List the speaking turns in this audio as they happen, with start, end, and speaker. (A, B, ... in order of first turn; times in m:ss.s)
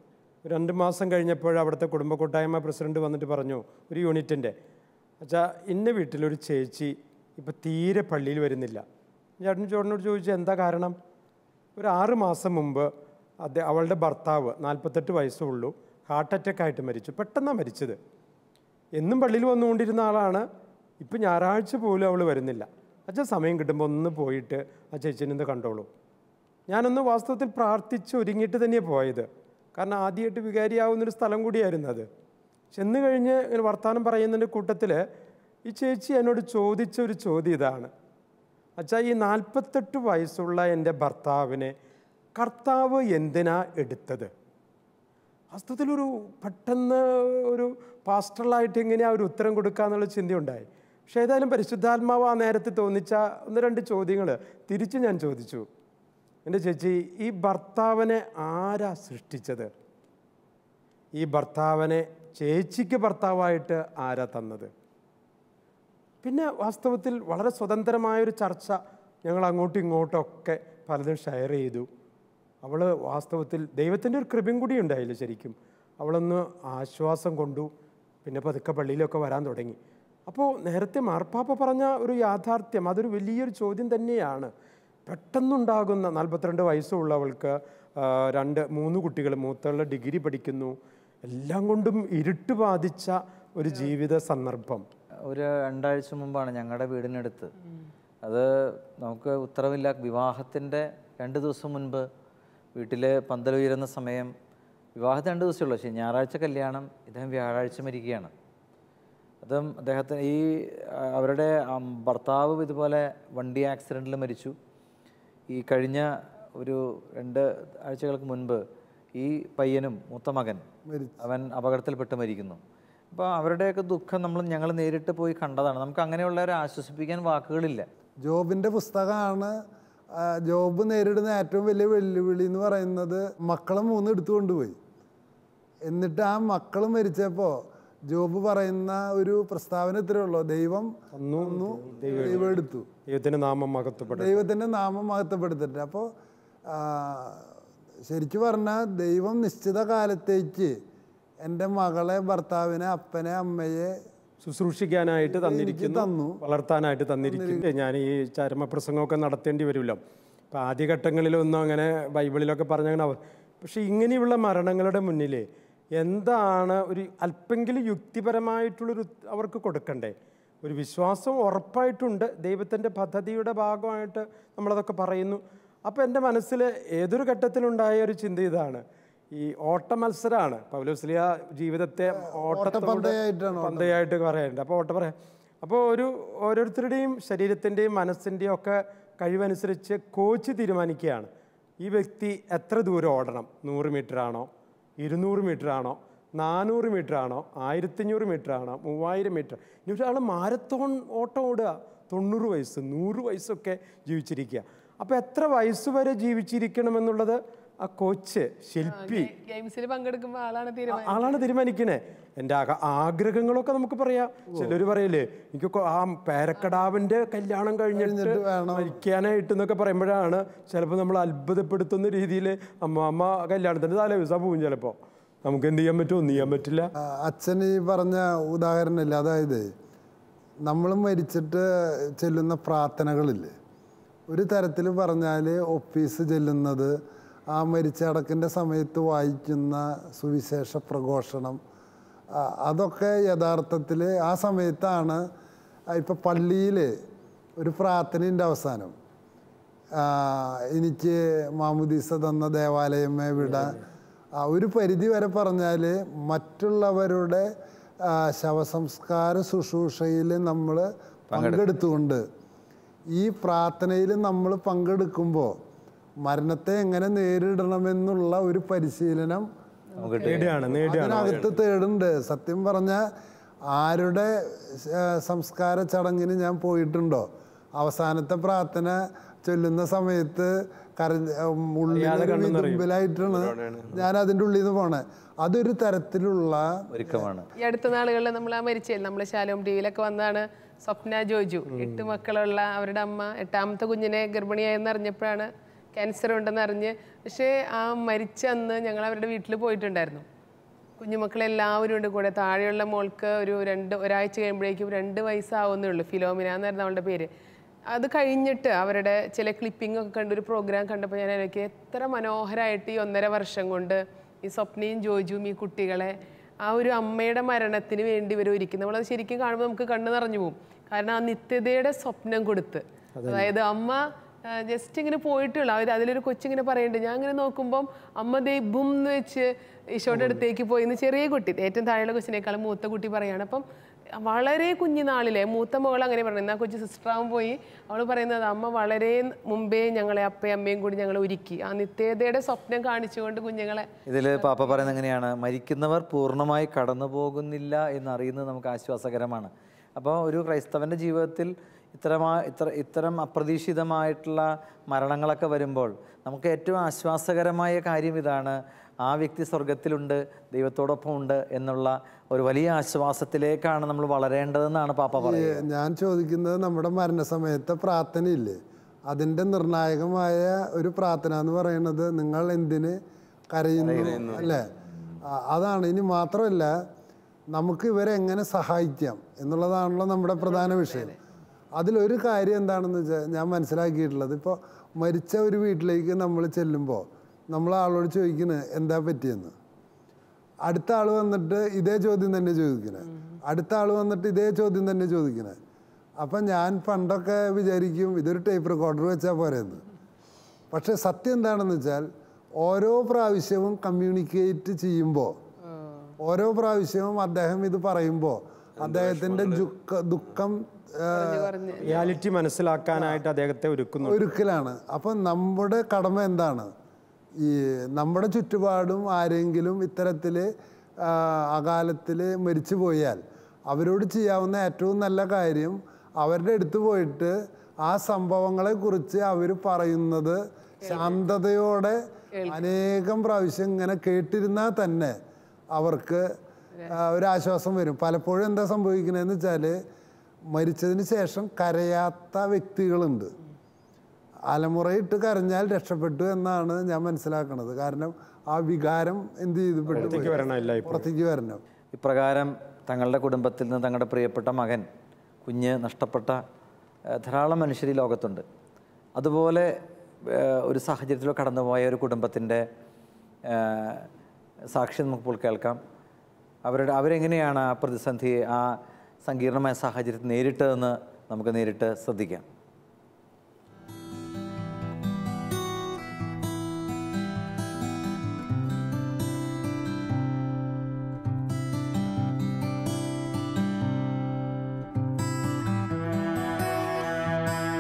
0:00.4-0:04.5 A
0:05.2-0:08.8 A
0:09.4-0:11.0 A
0:11.8-0:12.9 A
0:13.4-0:18.0 A
0:19.0-0:20.4 A
0:21.0-0:25.9 A
0:26.7-0:32.1 A
0:32.7-0:35.0 A
0:35.6-0:37.9 A
0:38.8-0:41.7 A
0:42.4-0:44.3 A
0:45.5-0:55.7 A
0:56.4-0:59.7 A
1:01.2-1:04.7 A
1:06.2-1:11.9 A
1:12.6-1:17.7 A
1:18.2-1:24.5 A
1:25.1-1:34.8 A
1:35.2-1:37.5 B
1:38.2-1:42.1 B
1:42.8-1:44.3 B
1:45.0-1:48.3 B
1:49.4-1:54.5 B
1:55.5-1:58.6 B
1:59.2-2:00.6 B
2:00.8-2:01.1 C
2:01.2-2:02.6 B
2:03.1-2:07.9 B
2:08.2-2:09.5 C
2:10.2-2:14.8 C
2:15.9-2:22.9 C
2:21.2-2:24.4 A
2:24.1-2:26.1 C
2:26.7-2:27.5 C
2:28.1-2:30.8 C
2:31.4-2:33.9 C
2:34.4-2:40.0 A
2:35.2-2:36.4 C
2:37.2-2:37.6 C
2:40.5-2:45.5 A
2:46.0-3:11.3 A
3:02.4-3:03.9 C
3:11.8-3:29.3 A
3:28.8-3:31.4 D
3:30.9-3:46.9 A
3:37.9-3:39.0 C
3:47.2-3:49.7 C
3:50.6-3:53.5 C
3:54.3-3:56.9 C
3:57.5-4:01.6 C
4:02.4-4:05.2 C
4:05.9-4:06.9 C
4:07.6-4:08.9 C
4:10.0-4:13.7 C
4:14.4-4:17.5 C
4:18.1-4:22.2 C
4:21.3-4:21.6 B
4:23.1-4:25.6 C
4:26.2-4:29.5 C
4:30.0-4:30.4 D
4:30.0-4:30.6 B
4:30.2-4:31.5 A
4:30.8-4:33.0 C
4:33.7-4:47.2 C
4:41.9-4:43.9 A
4:46.9-4:47.5 B
4:47.6-5:00.2 D
4:51.7-4:52.2 A
5:01.0-5:07.3 D
5:07.9-5:44.9 D
5:23.2-5:23.5 A
5:30.1-5:30.4 A
5:44.1-6:05.6 B
6:05.2-6:13.0 C
6:13.5-6:14.7 C
6:13.8-6:14.6 B
6:15.2-6:16.7 C
6:17.5-6:21.2 C
6:20.5-6:21.1 D
6:21.8-6:29.5 C
6:30.6-6:35.6 C
6:36.2-6:39.8 C
6:40.7-6:42.1 C
6:42.6-6:45.4 C
6:46.2-6:52.0 C
6:51.1-6:52.1 D
6:51.8-6:54.2 A
6:52.9-6:53.2 C
6:54.0-6:56.7 C
6:57.4-7:00.5 C
7:01.0-7:15.2 C
7:10.8-7:11.1 D
7:12.3-7:12.6 D
7:15.7-7:16.2 C
7:16.9-7:19.8 C
7:20.5-7:23.3 C
7:24.5-7:31.6 C
7:29.9-7:31.0 A
7:32.0-7:34.8 B
7:35.4-7:36.4 B
7:37.1-7:38.4 B
7:39.2-7:39.7 B
7:40.2-7:42.6 B
7:43.5-7:44.1 B
7:44.7-7:45.8 B
7:46.6-7:52.4 B